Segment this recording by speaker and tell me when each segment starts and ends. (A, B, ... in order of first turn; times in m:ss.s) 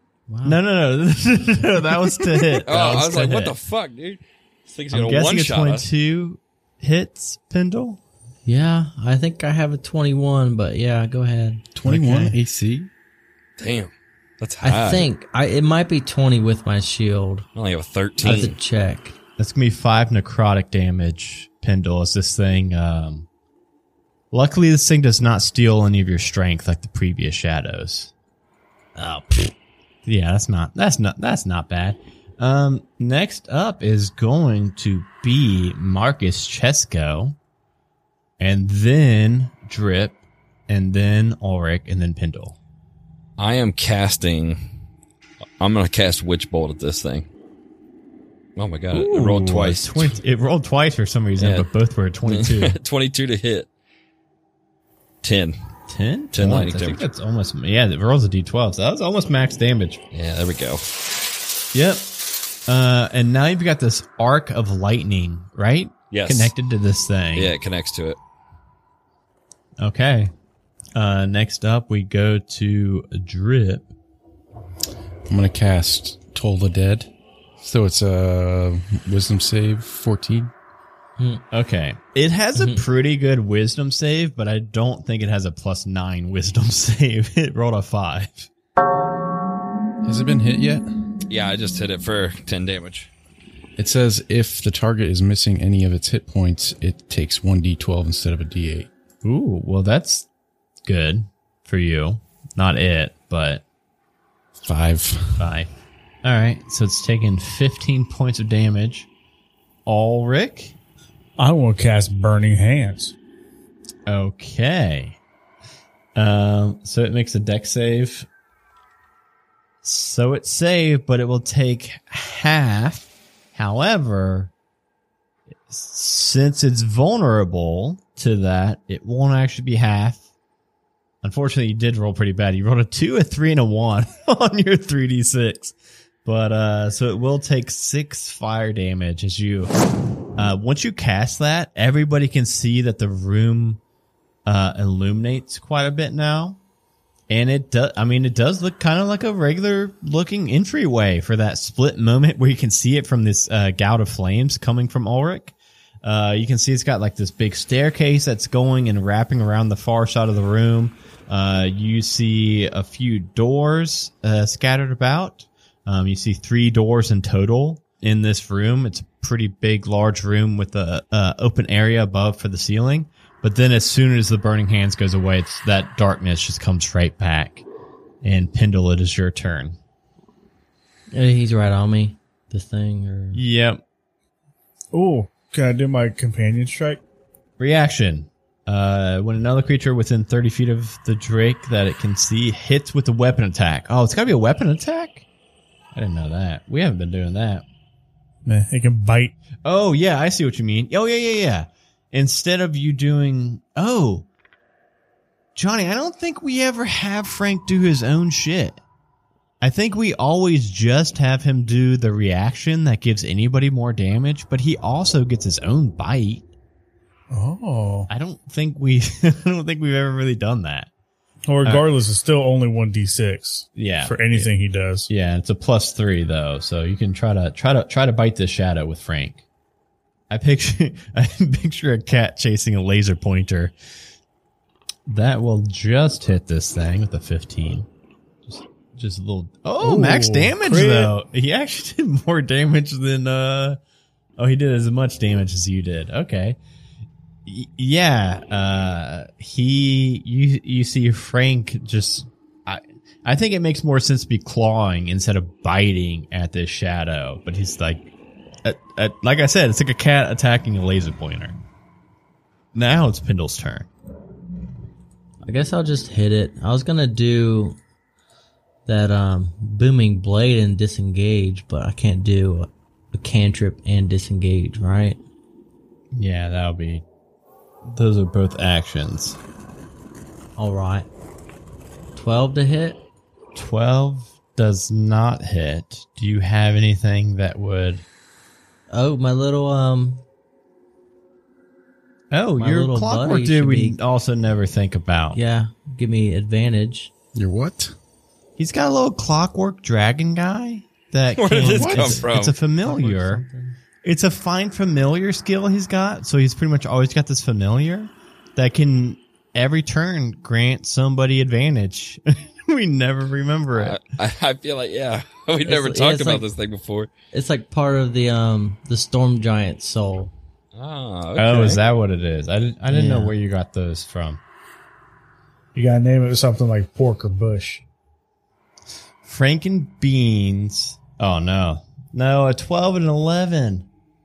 0:00.3-0:00.6 A
0:00.4-0:03.5 B
0:02.7-0:05.9 C
0:04.9-0:08.0 B
0:08.4-0:12.3 A
0:11.7-0:12.9 D
0:11.9-0:12.3 B
0:13.6-0:15.1 C
0:14.6-0:17.4 A
0:17.5-0:18.6 C
0:18.2-0:19.1 A
0:18.2-0:18.5 B
0:19.4-0:23.3 B
0:24.3-0:28.1 B
0:29.0-0:29.5 A
0:30.0-0:37.4 B
0:38.4-0:42.6 B
0:43.4-0:44.6 C
0:45.6-0:47.3 C
0:48.6-0:50.2 C
0:48.9-0:52.8 B
0:51.4-0:51.7 C
0:52.2-0:53.7 C
0:55.2-0:55.6 C
0:55.9-1:00.0 B
0:56.3-0:57.0 C
1:00.1-1:00.8 C
1:01.7-1:02.1 B
1:02.7-1:07.5 B
1:06.1-1:06.5 C
1:07.3-1:08.2 C
1:09.8-1:10.3 B
1:10.9-1:13.9 B
1:15.3-1:20.5 D
1:21.5-1:28.5 B
1:22.5-1:22.8 A
1:30.0-1:30.9 D
1:31.3-1:33.1 C
1:33.8-1:38.9 D
1:39.2-1:40.3 B
1:40.8-1:43.6 B
1:44.6-1:45.4 D
1:45.4-1:45.7 B
1:46.2-1:49.1 B
1:49.8-1:50.8 B
1:51.4-1:53.1 E
1:54.1-1:55.2 B
1:56.2-1:58.3 B
1:59.8-2:04.5 B
2:05.7-2:10.2 B
2:11.2-2:19.7 B
2:20.4-2:23.8 B
2:24.4-2:26.6 B
2:27.3-2:57.6 B
2:58.2-2:59.8 B
3:01.1-3:03.4 A
3:03.3-3:03.8 B
3:04.9-3:07.0 E
3:07.6-3:15.2 B
3:15.9-3:17.6 B
3:18.4-3:19.3 E
3:19.6-3:24.3 B
3:25.6-3:28.8 B
3:29.6-3:36.4 B
3:37.3-3:38.1 E
3:38.1-3:40.9 B
3:41.5-3:45.1 E
3:43.8-3:44.5 B
3:45.1-3:49.4 B
3:50.3-3:53.7 B
3:55.1-3:57.9 B
3:58.5-4:03.8 B
3:59.8-4:01.1 E
4:04.4-4:06.6 B
4:07.4-4:18.1 B
4:18.6-4:21.6 B
4:22.7-4:23.9 B
4:25.4-4:27.8 A
4:28.8-4:35.2 A
4:36.1-4:37.0 B
4:37.8-4:39.4 B
4:40.6-4:41.0 A
4:42.1-4:43.0 A
4:43.5-4:48.0 B
4:48.9-4:50.2 A
4:52.3-4:55.4 B
4:52.6-4:54.0 A
4:55.3-4:57.1 A
4:57.3-4:57.9 D
4:58.6-5:03.4 B
5:01.4-5:02.5 C
5:01.5-5:03.8 A
5:04.0-5:14.0 B
5:13.8-5:17.1 C
5:15.6-5:16.4 A
5:17.3-5:20.3 A
5:20.7-5:21.8 C
5:21.4-5:24.4 B
5:22.9-5:23.4 A
5:25.7-5:27.8 E
5:29.2-5:33.9 B